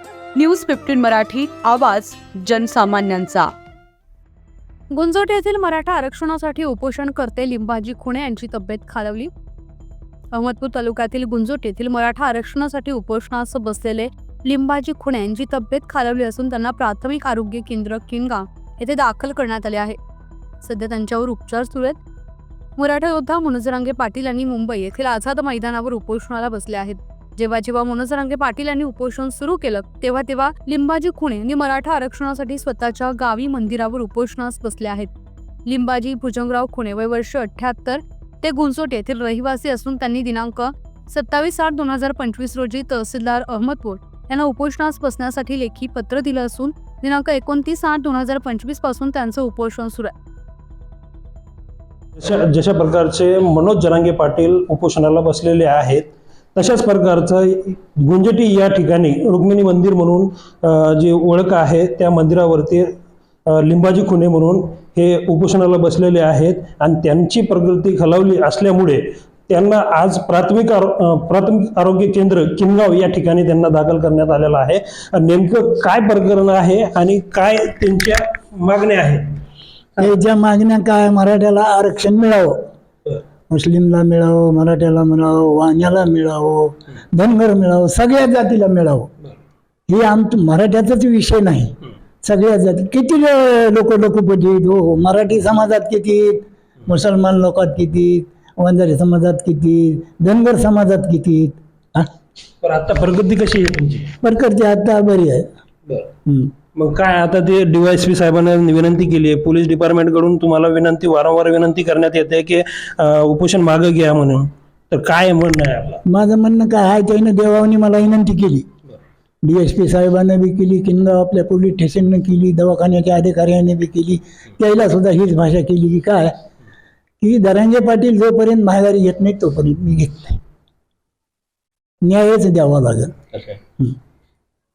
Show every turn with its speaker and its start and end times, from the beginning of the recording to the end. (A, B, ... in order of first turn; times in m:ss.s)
0:00.3-0:03.5 A
0:04.9-0:09.3 A
0:10.3-0:20.0 A
0:20.6-0:22.0 A
0:22.8-0:35.1 A
0:35.6-0:50.1 A
0:52.2-1:19.4 B
1:20.0-1:22.6 C
1:23.5-1:29.1 C
1:29.9-1:42.1 C
1:42.6-1:44.1 B
1:44.2-1:45.5 C
1:46.2-1:46.5 C
1:46.7-1:56.0 B
1:56.0-1:58.7 C
1:59.4-2:06.4 C
2:07.2-2:10.4 C
2:12.0-2:13.2 C